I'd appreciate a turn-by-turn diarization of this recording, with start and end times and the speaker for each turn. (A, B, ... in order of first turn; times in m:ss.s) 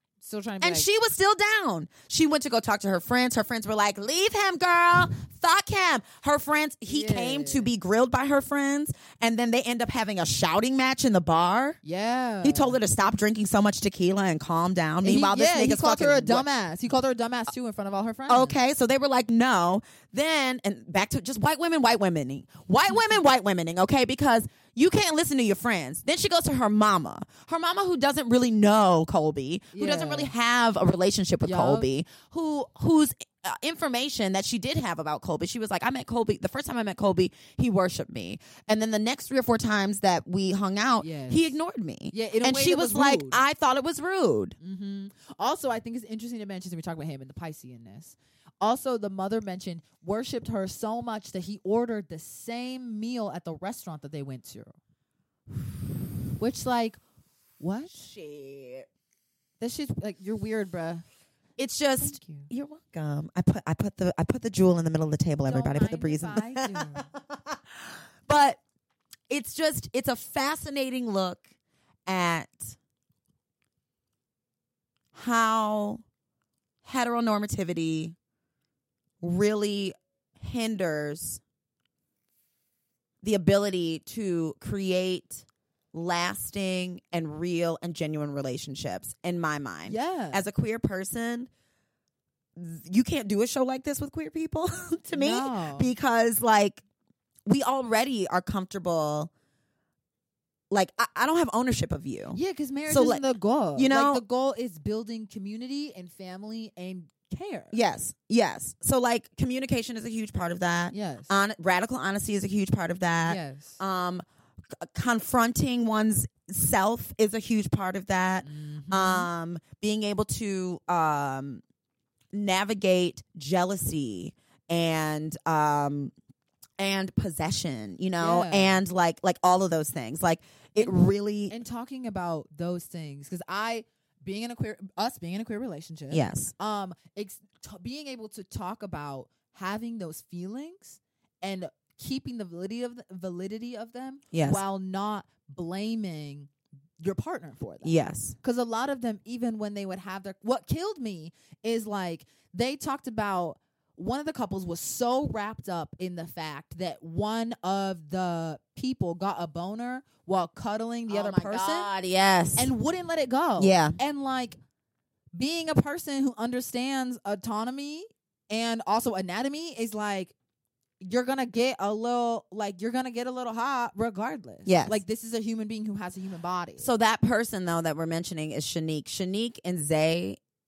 0:00.2-0:00.9 A
0:00.6-0:11.8 B
0:06.9-0:07.7 A
0:11.8-0:12.8 A
0:12.4-0:16.4 B
0:15.0-0:18.6 A
0:18.3-0:44.6 B
0:29.7-0:30.3 A
0:31.4-0:31.9 A
0:41.0-0:41.6 A
0:42.1-0:43.4 A
0:44.6-0:54.7 A
0:56.4-0:57.0 A
0:57.6-0:58.0 A
0:57.9-0:58.9 B
0:59.6-1:01.0 A
1:01.6-1:08.6 B
1:02.0-1:02.5 A
1:05.5-1:07.1 A
1:09.3-1:11.4 B
1:12.1-1:12.8 B
1:15.1-1:16.0 B
1:16.8-1:18.2 B
1:19.2-1:21.4 B
1:23.2-1:31.5 B
1:29.9-1:30.4 A
1:32.6-1:36.8 B
1:35.1-1:35.9 A
1:37.4-1:39.3 B
1:40.7-1:43.2 B
1:42.3-1:47.7 A
1:43.8-1:44.2 B
1:47.7-1:54.2 B
1:50.9-1:51.3 A
1:53.3-1:53.8 A
1:54.8-2:01.6 B
1:58.4-1:59.3 A
2:02.3-2:06.1 B
2:06.8-2:11.6 B
2:08.2-2:08.8 A
2:11.5-2:41.9 A
2:16.1-2:16.5 B
2:24.3-2:24.6 B
2:27.8-2:28.4 B
2:41.1-2:42.7 B
2:42.6-2:44.6 A
2:43.6-2:44.0 B
2:45.3-2:50.3 A
2:51.0-2:56.9 A
2:54.7-2:55.0 B
2:56.8-3:00.4 B